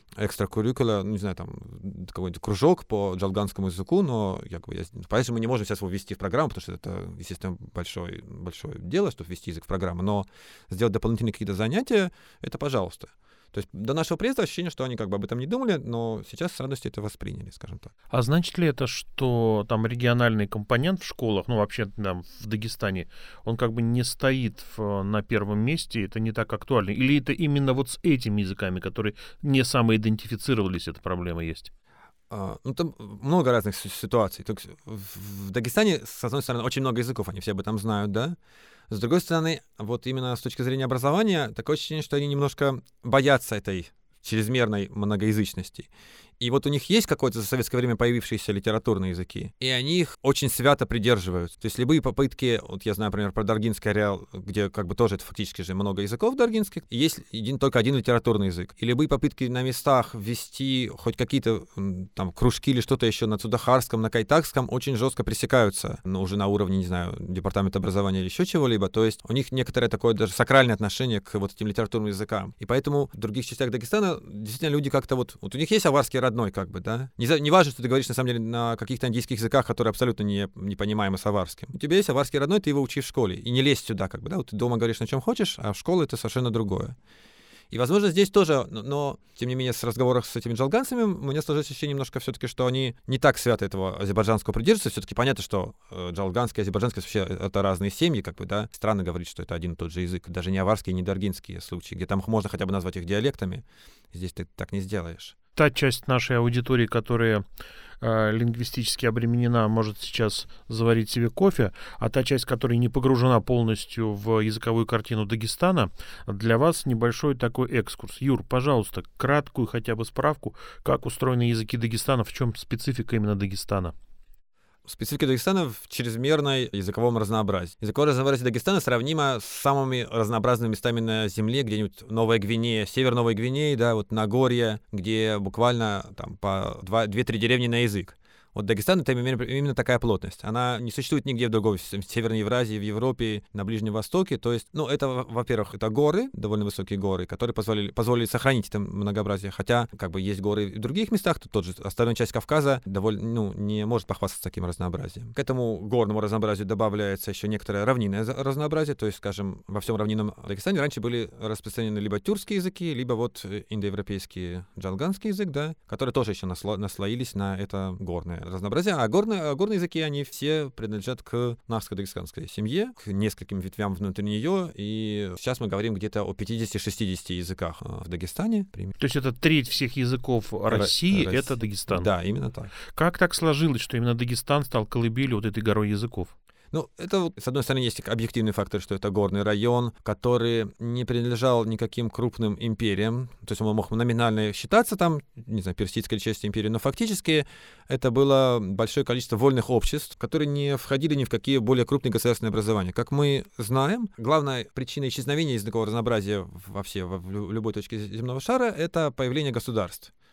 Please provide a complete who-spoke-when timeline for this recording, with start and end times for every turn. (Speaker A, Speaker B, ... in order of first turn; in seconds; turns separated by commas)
Speaker A: 0.2-17.9, Speaker B: 18.1-31.7, Speaker A: 32.3-38.4, Speaker A: 38.9-87.0, Speaker A: 87.7-105.3, Speaker B: 105.5-107.4, Speaker B: 108.0-123.9, Speaker A: 124.8-178.9, Speaker B: 179.0-182.1, Speaker A: 180.7-182.7, Speaker B: 182.9-186.3, Speaker A: 186.7-210.1